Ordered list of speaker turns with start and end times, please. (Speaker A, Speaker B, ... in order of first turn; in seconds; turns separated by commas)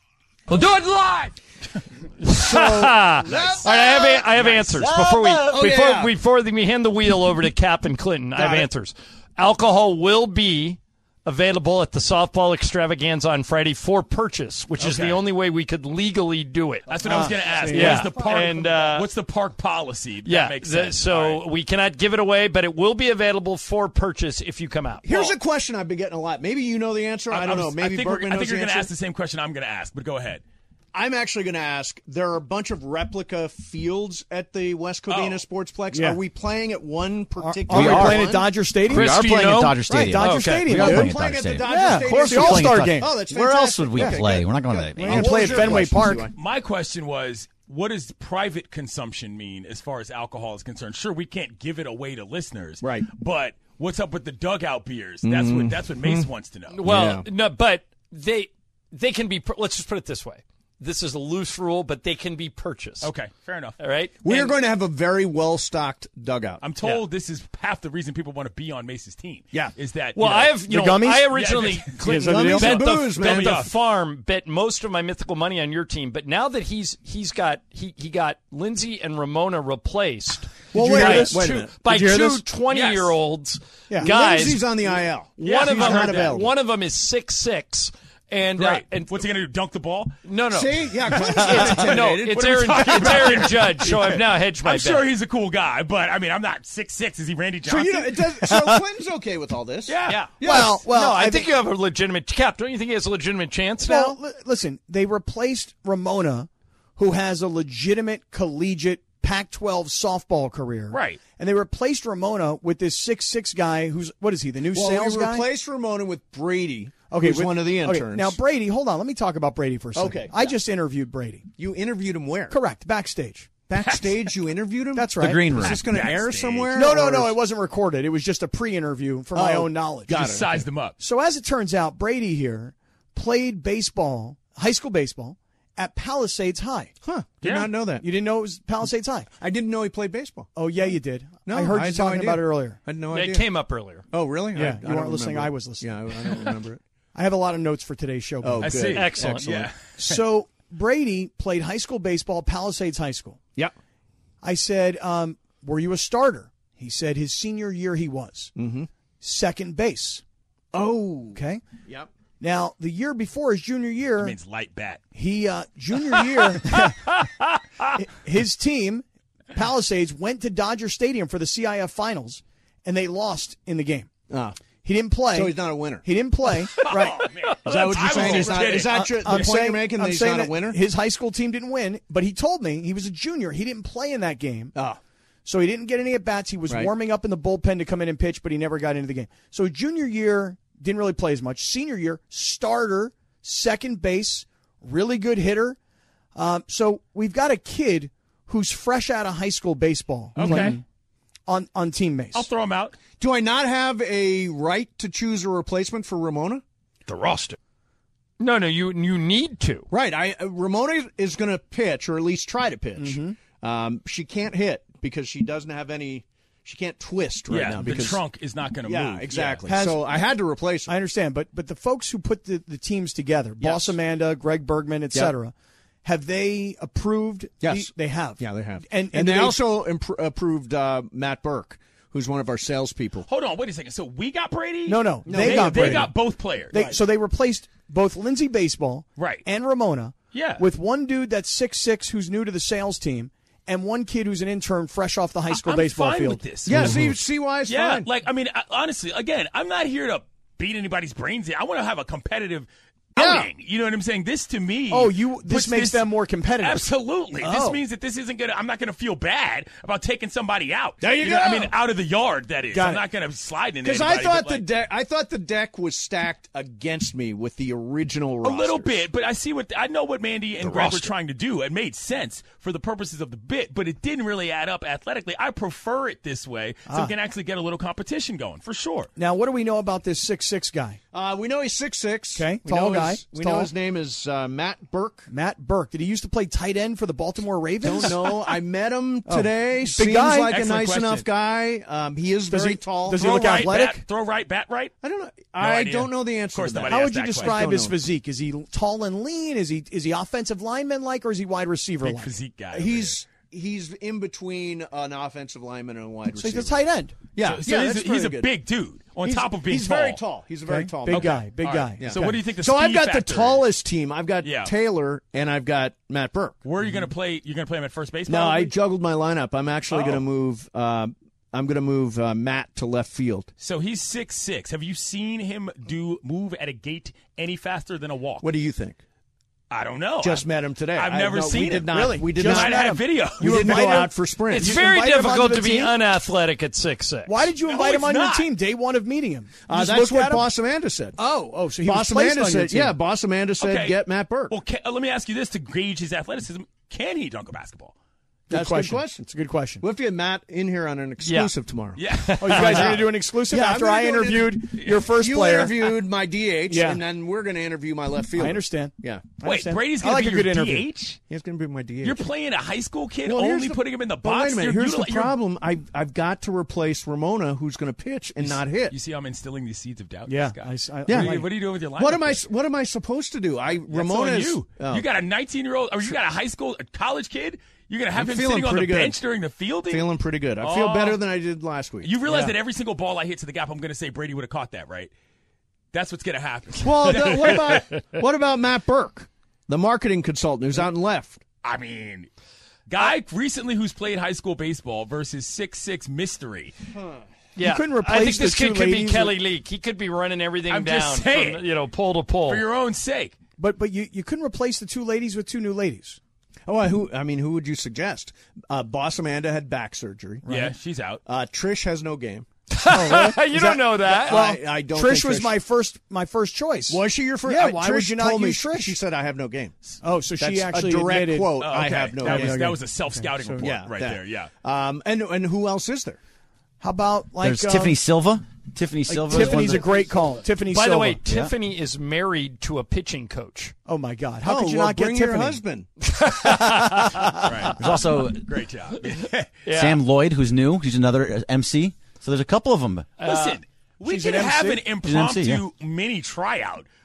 Speaker A: 0.5-1.0, Speaker B: 2.2-16.9, Speaker A: 2.3-6.1, Speaker C: 3.3-3.6, Speaker A: 8.4-8.7, Speaker C: 14.8-15.2, Speaker C: 16.9-21.4, Speaker A: 16.9-19.0, Speaker D: 17.1-18.1, Speaker B: 17.7-19.1, Speaker B: 20.2-25.3, Speaker A: 25.0-28.9, Speaker C: 27.3-30.4, Speaker A: 30.9-38.5, Speaker C: 35.1-35.4, Speaker D: 35.9-36.2, Speaker D: 37.4-43.3, Speaker E: 37.7-45.8, Speaker B: 38.9-41.1, Speaker A: 40.9-46.3, Speaker D: 44.0-44.3, Speaker D: 45.0-46.3, Speaker C: 46.4-56.8, Speaker A: 52.8-53.1, Speaker A: 55.2-56.3, Speaker B: 56.7-63.1, Speaker A: 56.8-57.3, Speaker C: 63.0-63.8, Speaker B: 63.8-64.5, Speaker A: 64.2-66.6, Speaker C: 66.6-70.5, Speaker B: 70.2-89.2, Speaker D: 70.6-71.4, Speaker C: 71.3-72.0, Speaker D: 72.0-72.9, Speaker A: 72.2-73.7, Speaker C: 72.9-73.7, Speaker A: 80.7-81.8, Speaker D: 80.7-82.5, Speaker C: 82.7-83.2, Speaker A: 84.0-86.5, Speaker C: 85.4-86.3, Speaker C: 88.6-90.2, Speaker B: 90.2-95.1, Speaker A: 90.5-93.7, Speaker C: 91.5-98.1, Speaker A: 97.7-100.8, Speaker C: 99.9-100.2, Speaker B: 100.1-104.2, Speaker D: 100.4-101.6, Speaker D: 103.8-115.5, Speaker C: 110.9-111.2, Speaker A: 114.7-118.4, Speaker D: 117.1-121.5, Speaker A: 120.0-120.6, Speaker A: 121.6-122.6, Speaker D: 122.5-123.5, Speaker A: 123.7-127.4, Speaker C: 123.8-124.1, Speaker D: 124.9-125.8, Speaker E: 125.2-125.9, Speaker C: 125.7-126.7, Speaker D: 126.7-130.3, Speaker A: 129.3-130.7, Speaker C: 130.1-131.0, Speaker D: 131.0-136.9, Speaker A: 137.0-138.1, Speaker C: 137.4-137.7, Speaker D: 138.0-139.3, Speaker A: 139.4-140.5, Speaker D: 140.6-142.8, Speaker A: 141.5-143.5, Speaker B: 143.1-144.1, Speaker A: 144.1-146.8, Speaker D: 144.5-146.5, Speaker D: 147.2-148.9, Speaker A: 148.4-149.7, Speaker C: 148.6-150.2, Speaker B: 148.9-149.7, Speaker D: 150.0-153.4, Speaker D: 154.4-158.5, Speaker A: 158.6-158.9, Speaker D: 159.2-160.2, Speaker A: 160.7-162.1, Speaker D: 161.3-161.7, Speaker D: 162.4-164.4, Speaker C: 164.2-165.0, Speaker D: 165.2-167.3, Speaker D: 167.8-174.1, Speaker A: 174.3-174.6, Speaker D: 174.8-177.3, Speaker A: 175.3-176.1, Speaker C: 176.8-179.5, Speaker B: 177.5-177.8, Speaker A: 177.6-180.8, Speaker D: 178.1-184.8, Speaker D: 185.4-195.8, Speaker D: 196.3-200.8, Speaker C: 200.4-200.8, Speaker B: 200.5-200.7, Speaker D: 201.5-202.5, Speaker C: 202.3-203.0, Speaker A: 203.2-206.6, Speaker B: 207.1-207.6, Speaker B: 208.4-209.9, Speaker A: 209.9-218.2, Speaker D: 213.0-213.4, Speaker C: 217.5-219.7, Speaker A: 218.8-220.9, Speaker D: 219.7-220.3, Speaker D: 220.9-225.5, Speaker A: 223.6-223.9, Speaker D: 226.0-229.6, Speaker A: 227.6-233.3, Speaker C: 233.3-236.8, Speaker D: 234.9-236.2, Speaker A: 235.2-236.1, Speaker D: 236.7-247.2, Speaker C: 239.2-239.4, Speaker C: 240.3-240.7, Speaker C: 245.5-247.0, Speaker A: 246.7-248.1, Speaker C: 247.7-264.6, Speaker A: 253.2-253.5, Speaker D: 254.9-257.8, Speaker A: 261.0-261.8, Speaker D: 262.7-263.0, Speaker A: 263.8-269.0, Speaker C: 268.4-279.1, Speaker A: 270.6-271.1, Speaker D: 279.2-281.0, Speaker A: 281.1-285.3, Speaker D: 282.4-283.7, Speaker D: 285.3-288.6, Speaker A: 287.8-293.7, Speaker D: 289.3-290.6, Speaker C: 290.5-291.3, Speaker D: 292.5-294.0, Speaker C: 293.2-294.9, Speaker A: 295.0-298.0, Speaker C: 295.6-297.6, Speaker D: 296.9-302.4, Speaker C: 302.0-303.2, Speaker A: 302.7-306.8, Speaker D: 306.3-307.2, Speaker A: 307.3-308.5, Speaker C: 307.4-310.2, Speaker D: 309.2-309.6, Speaker A: 309.6-316.6, Speaker D: 310.7-312.4, Speaker C: 311.1-313.7, Speaker C: 314.4-314.7, Speaker C: 316.6-318.7, Speaker A: 318.3-323.5, Speaker C: 319.9-320.2, Speaker C: 323.6-328.4, Speaker A: 328.4-329.0, Speaker C: 329.7-333.9, Speaker A: 330.2-334.8, Speaker D: 331.9-336.0, Speaker B: 334.5-337.4, Speaker D: 337.3-340.5, Speaker C: 337.6-338.5, Speaker A: 339.6-341.2, Speaker D: 341.2-343.0, Speaker A: 341.8-344.5, Speaker C: 343.6-347.9, Speaker A: 348.5-349.3, Speaker D: 348.5-349.8, Speaker A: 349.8-352.0, Speaker B: 351.2-351.5, Speaker C: 352.0-353.0, Speaker B: 352.1-352.9, Speaker D: 352.4-356.0, Speaker A: 352.5-359.4, Speaker D: 356.7-357.0, Speaker D: 358.4-360.9, Speaker C: 359.4-361.2, Speaker A: 361.3-362.3, Speaker C: 362.0-365.4, Speaker A: 363.2-368.9, Speaker C: 368.4-372.4, Speaker D: 370.3-371.5, Speaker A: 371.1-375.1, Speaker C: 373.9-380.1, Speaker A: 378.1-379.2, Speaker A: 379.9-382.5, Speaker C: 380.6-381.2, Speaker C: 382.0-385.1, Speaker C: 385.9-387.9, Speaker A: 386.8-391.4, Speaker C: 391.6-392.3, Speaker C: 392.9-396.7, Speaker B: 397.6-402.6, Speaker D: 397.6-399.4, Speaker C: 400.7-401.6, Speaker C: 402.5-403.4, Speaker D: 403.6-406.2, Speaker A: 406.7-410.4, Speaker D: 410.4-410.8, Speaker C: 410.5-411.2, Speaker A: 411.3-412.5, Speaker B: 412.7-414.4, Speaker D: 412.9-419.0, Speaker A: 414.1-415.6, Speaker A: 416.9-419.7, Speaker D: 420.0-423.8, Speaker A: 420.4-422.8, Speaker C: 421.6-424.5, Speaker A: 423.6-426.2, Speaker D: 426.8-428.0, Speaker E: 427.4-429.9, Speaker D: 429.1-431.5, Speaker B: 430.7-433.7, Speaker D: 433.9-435.6, Speaker A: 434.4-435.9, Speaker B: 436.2-437.2, Speaker D: 436.4-437.7, Speaker C: 437.5-437.8, Speaker E: 437.8-438.4, Speaker C: 438.4-439.5, Speaker B: 439.6-440.0, Speaker E: 439.7-443.1, Speaker B: 443.2-443.6, Speaker C: 443.2-446.9, Speaker D: 444.1-444.9, Speaker E: 445.0-445.6